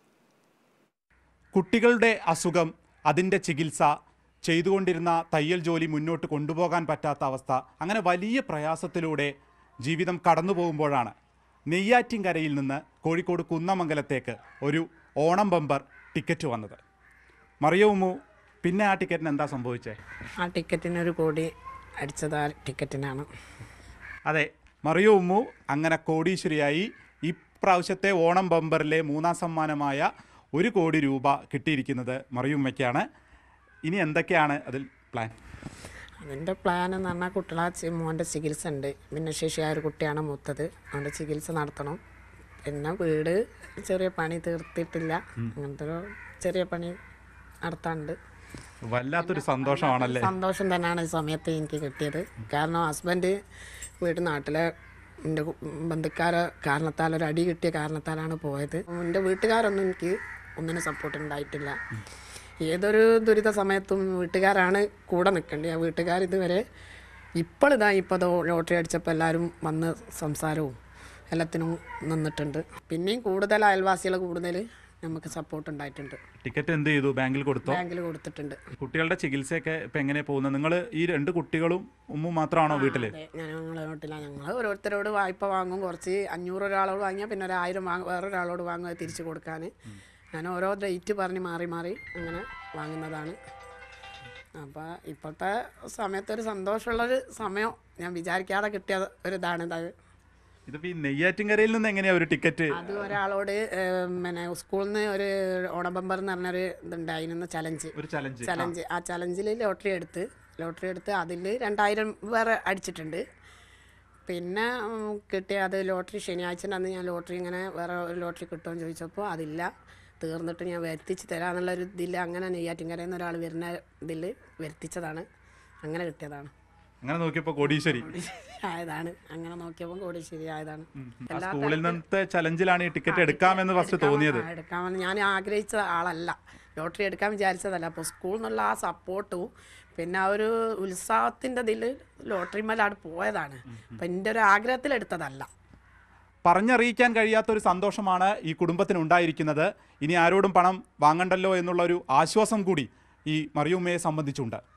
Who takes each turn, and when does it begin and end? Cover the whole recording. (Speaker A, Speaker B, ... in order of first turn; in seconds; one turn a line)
Speaker A: 1.5-3.9
Speaker A: 4.5-9.3
Speaker A: 9.8-11.1
Speaker A: 11.7-16.8
Speaker A: 17.6-20.0
Speaker B: 20.4-21.5
Speaker B: 22.0-23.2
Speaker A: 24.3-33.0
Speaker A: 33.9-35.3
Speaker B: 36.2-42.0
Speaker B: 42.6-46.9
Speaker B: 47.6-48.1
Speaker A: 48.9-50.3
Speaker B: 49.2-53.3
Speaker B: 54.0-54.6
Speaker B: 55.3-61.8
Speaker B: 62.6-66.6
Speaker B: 67.4-70.7
Speaker B: 71.3-76.2
Speaker A: 76.4-77.8
Speaker B: 77.7-78.6
Speaker A: 78.8-83.1
Speaker B: 82.7-89.7
Speaker B: 90.3-93.3
Speaker B: 94.6-99.9
Speaker A: 100.7-103.2
Speaker B: 102.7-107.9
Speaker A: 107.9-108.7
Speaker B: 108.4-113.2
Speaker B: 114.3-119.7
Speaker B: 120.2-125.2
Speaker B: 125.8-126.5
Speaker A: 127.0-128.1
Speaker B: 127.9-132.0
Speaker A: 131.0-134.5
Speaker B: 133.1-145.5
Speaker A: 146.4-154.6